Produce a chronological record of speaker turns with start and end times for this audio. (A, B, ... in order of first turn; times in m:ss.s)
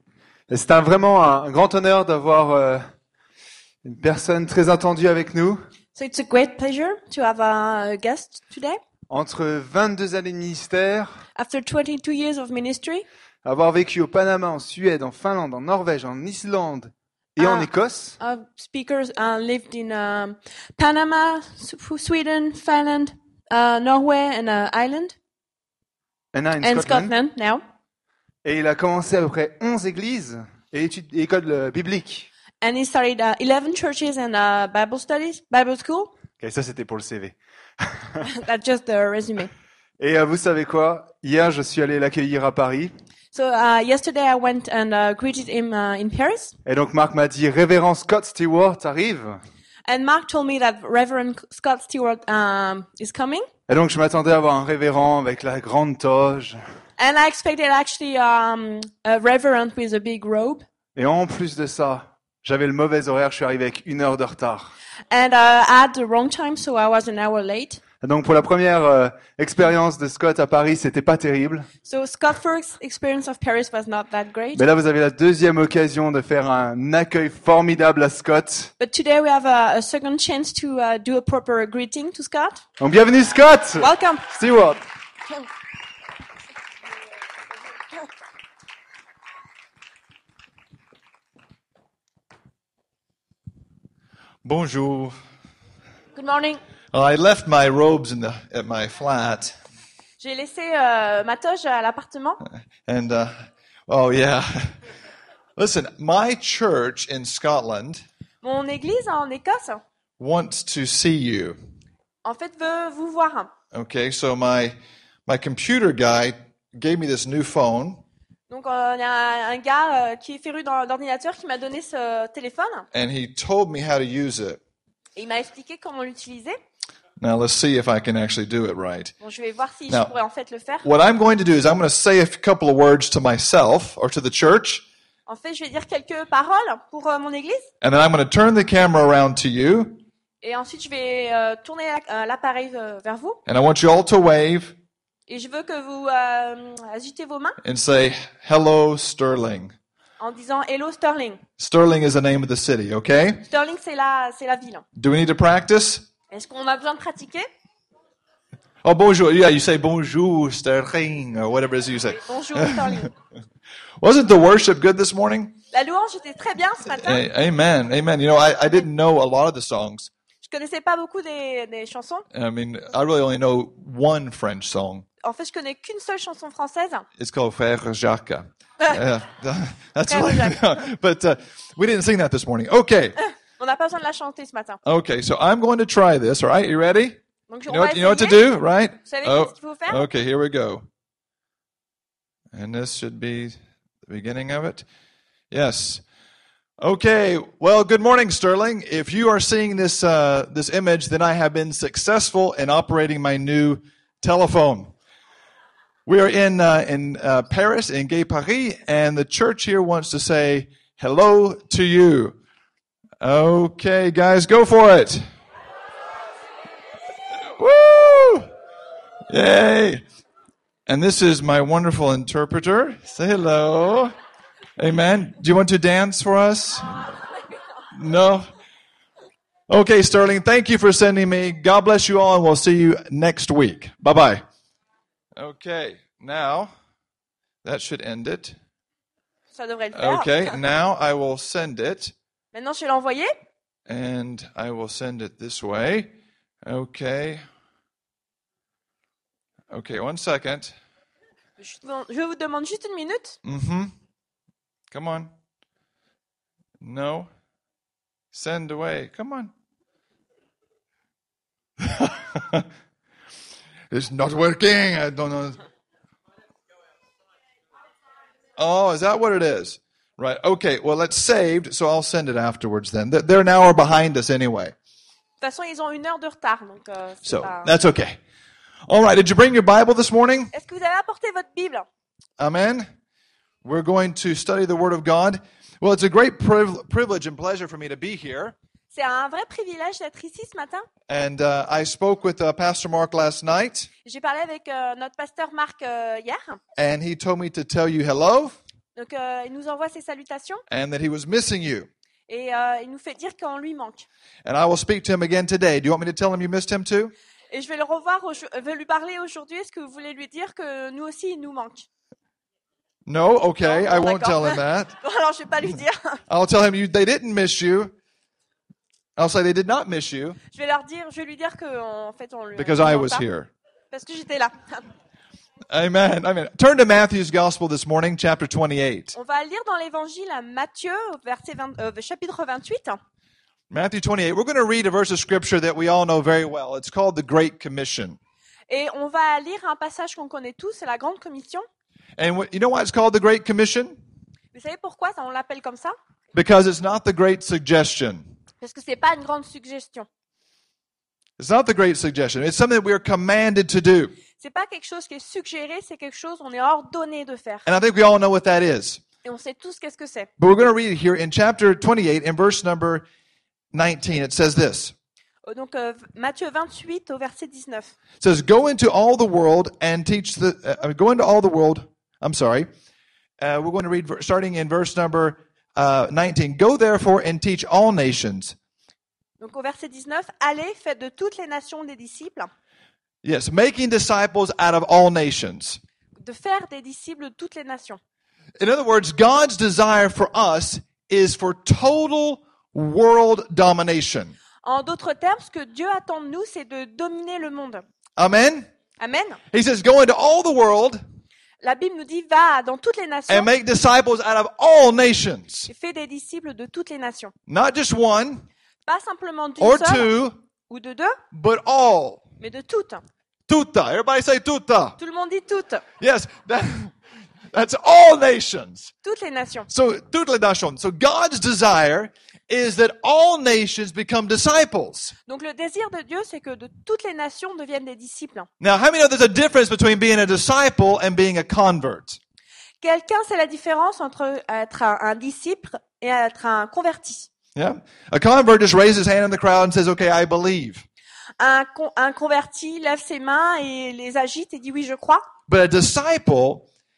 0:00.5-0:02.8 A
0:03.8-0:05.6 A
0:06.0-0:08.8 B
0:09.1-0:11.1 A
0:11.4-0:13.0 B
0:13.4-0:18.2 A
0:17.4-0:17.7 B
0:18.2-0:25.2 B
0:26.3-0:27.1 A
0:26.6-0:27.6 B
0:28.4-0:32.3 A
0:32.6-0:36.1 B
0:36.4-0:38.2 A
0:38.2-0:39.5 B
0:40.0-0:42.9 A
0:43.3-0:46.6 B
0:46.7-0:49.4 A
0:49.9-0:53.5 B
0:53.7-0:56.6 A
0:57.0-1:00.6 B
1:01.0-1:04.6 A
1:05.1-1:07.8 B
1:08.0-1:11.7 A
1:11.8-1:14.6 B
1:14.6-1:18.7 A
1:18.8-1:22.6 B
1:22.8-1:24.8 A
1:23.8-1:24.3 B
1:34.4-1:35.2 C
1:36.2-1:36.6 B
1:36.9-1:39.5 C
1:40.2-1:42.4 B
1:42.8-1:43.4 C
1:43.9-1:44.7 C
1:45.6-1:48.0 C
1:48.4-1:49.8 B
1:50.2-1:51.6 C
1:52.2-1:53.5 B
1:53.7-1:58.0 C
1:58.5-2:02.9 B
2:02.9-2:04.6 C
2:05.2-2:06.6 B
2:07.2-2:09.1 C
2:09.2-2:10.9 B
2:10.8-2:14.8 C
2:15.3-2:17.7 B
2:17.8-2:20.0 C
2:20.4-2:23.4 B
2:23.5-2:24.8 C
2:25.3-2:27.6 B
2:27.6-2:29.7 C
2:30.2-2:31.4 B
2:31.6-2:33.4 C
2:33.5-2:34.8 B
2:35.0-2:36.1 C
2:36.3-2:37.5 B
2:38.8-2:43.1 C
2:42.2-2:43.1 B
2:44.0-2:45.6 C
2:45.7-2:47.2 B
2:46.9-2:50.1 C
2:50.4-2:52.2 B
2:52.3-2:55.0 C
2:55.2-2:57.1 B
2:57.2-3:03.2 C
3:00.1-3:00.6 B
3:03.2-3:04.8 B
3:04.8-3:10.8 C
3:07.5-3:08.5 B
3:09.0-3:10.0 B
3:12.5-3:14.8 C
3:15.5-3:16.0 C
3:16.8-3:24.9 C
3:26.1-3:32.4 C
3:33.2-3:35.2 C
3:37.5-3:38.5 C
3:39.3-3:40.0 C
3:40.9-3:44.1 C
3:44.8-3:47.0 C
3:47.9-3:48.5 C
3:49.7-3:54.4 C
3:55.4-3:56.7 C
3:57.6-3:58.6 C
3:59.5-4:00.6 B
3:59.9-4:02.1 C
4:02.5-4:03.3 B
4:03.9-4:06.1 C
4:06.6-4:07.4 C
4:09.7-4:10.8 C
4:11.6-4:13.4 B
4:13.4-4:13.9 C
4:14.9-4:15.3 C
4:16.8-4:17.3 C
4:18.3-4:19.5 C
4:21.8-4:22.7 C
4:23.9-4:25.6 C
4:28.6-4:34.8 C
4:35.4-4:37.7 B
4:37.2-4:38.2 C
4:38.9-4:40.5 C
4:40.5-4:41.9 B
4:42.4-4:42.9 C
4:43.6-4:48.6 C
4:48.9-4:50.9 B
4:51.1-4:53.9 C
4:54.0-4:56.6 B
4:56.8-4:58.6 C
4:59.0-5:00.6 B
5:00.7-5:01.9 C
5:02.3-5:04.1 B
5:04.4-5:07.1 C
5:07.5-5:11.9 B
5:13.1-5:15.0 C
5:13.6-5:16.2 B
5:16.3-5:17.9 C
5:19.2-5:20.4 C
5:20.5-5:23.2 B
5:22.6-5:23.5 C
5:23.9-5:24.8 B
5:25.7-5:29.2 C
5:29.2-5:33.0 B
5:33.7-5:38.2 C
5:38.7-5:41.7 B
5:42.2-5:44.0 C
5:44.5-5:46.0 B
5:46.3-5:48.3 C
5:48.6-5:50.1 B
5:51.4-5:54.1 C
5:54.4-5:57.7 B
5:57.7-5:59.0 C
5:59.2-6:00.3 B
6:00.4-6:03.1 C
6:03.7-6:04.9 C
6:05.4-6:08.0 B
6:08.2-6:12.7 C
6:13.4-6:18.6 C
6:19.4-6:22.5 B
6:23.2-6:25.8 C
6:26.2-6:28.0 B
6:28.6-6:34.4 C
6:34.6-6:37.8 B
6:38.2-6:38.7 C
6:39.0-6:39.4 B
6:39.5-6:41.0 C
6:41.6-6:43.5 B
6:43.3-6:45.7 C
6:45.7-6:47.3 B
6:47.5-6:48.5 C
6:48.9-6:50.1 B
6:49.6-6:50.4 C
6:50.7-6:51.2 B
6:51.3-6:52.2 C
6:52.4-6:53.0 B
6:53.5-6:55.0 C
6:55.0-6:55.8 B
6:56.0-6:56.9 C
6:57.5-6:58.9 C
6:59.0-6:59.7 B
6:59.7-7:05.1 C
7:05.3-7:08.5 B
7:08.6-7:12.2 C
7:12.8-7:17.3 B
7:17.6-7:20.8 C
7:21.4-7:25.3 B
7:25.5-7:26.6 C